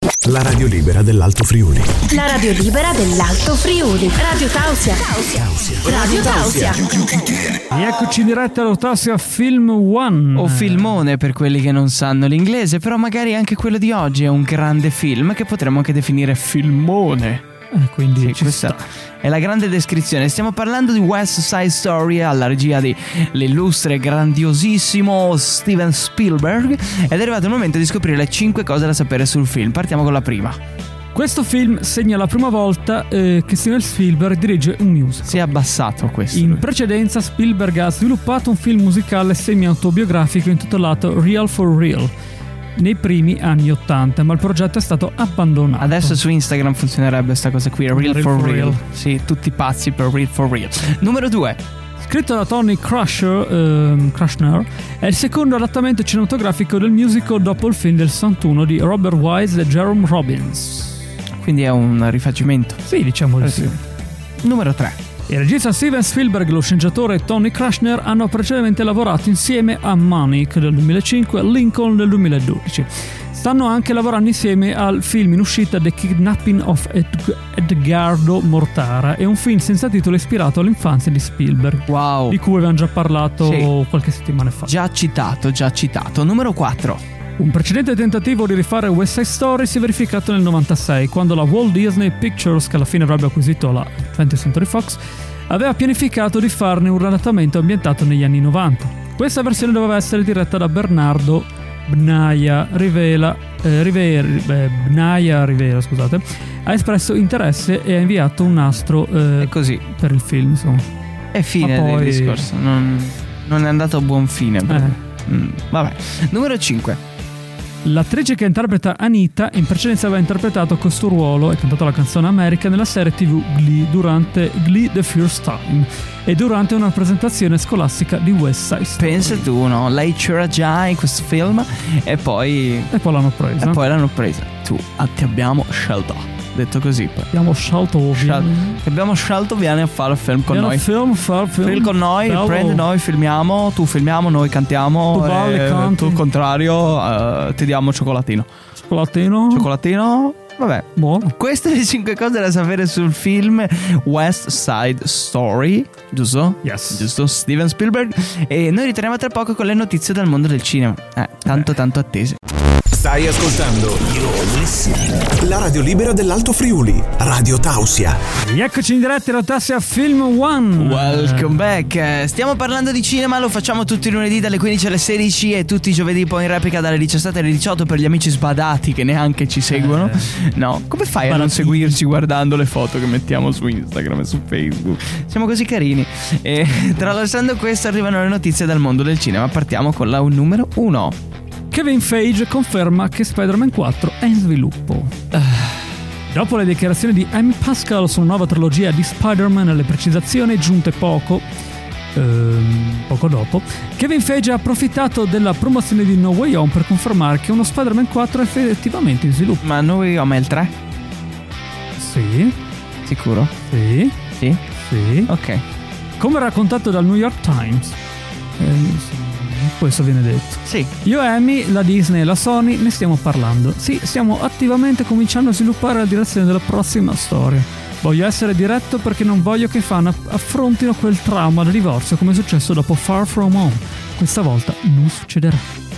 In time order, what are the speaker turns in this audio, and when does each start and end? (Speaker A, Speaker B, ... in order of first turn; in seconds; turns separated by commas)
Speaker A: 0.2-2.0, Speaker B: 2.0-6.8, Speaker A: 5.3-7.4, Speaker C: 7.7-11.0, Speaker D: 10.3-17.4, Speaker C: 17.7-18.8, Speaker D: 18.2-30.6, Speaker C: 31.1-35.6, Speaker D: 35.2-36.6, Speaker C: 36.3-42.1, Speaker C: 42.8-46.2, Speaker D: 45.8-51.6, Speaker C: 47.9-48.8, Speaker C: 52.0-61.0, Speaker D: 61.4-62.8, Speaker C: 62.8-63.8, Speaker D: 63.4-63.8, Speaker D: 64.4-65.0, Speaker C: 65.3-84.8, Speaker D: 81.9-82.4, Speaker D: 83.4-83.7, Speaker D: 84.7-87.0, Speaker C: 87.4-110.8, Speaker D: 109.4-109.8, Speaker D: 111.3-117.0, Speaker C: 111.6-112.5, Speaker C: 114.7-115.0, Speaker C: 117.8-129.5, Speaker D: 129.0-132.9, Speaker C: 132.9-133.8, Speaker D: 133.6-137.3, Speaker C: 137.3-138.8, Speaker D: 138.2-140.8, Speaker C: 140.5-142.8, Speaker D: 141.6-148.5, Speaker C: 145.1-146.2, Speaker C: 148.8-149.7, Speaker D: 149.5-162.4, Speaker C: 151.0-151.3, Speaker C: 156.6-157.1, Speaker A: 162.9-168.2, Speaker C: 168.4-171.7, Speaker D: 170.8-191.2, Speaker C: 179.7-180.3, Speaker C: 181.2-182.0, Speaker C: 186.7-187.0, Speaker C: 191.7-195.1, Speaker C: 196.3-201.4, Speaker C: 202.2-209.6, Speaker D: 209.6-210.7, Speaker C: 212.0-212.6, Speaker D: 213.1-213.5, Speaker C: 213.7-214.2, Speaker C: 214.8-215.3, Speaker D: 215.3-215.6, Speaker C: 216.2-218.0, Speaker C: 218.6-235.7, Speaker D: 220.7-220.9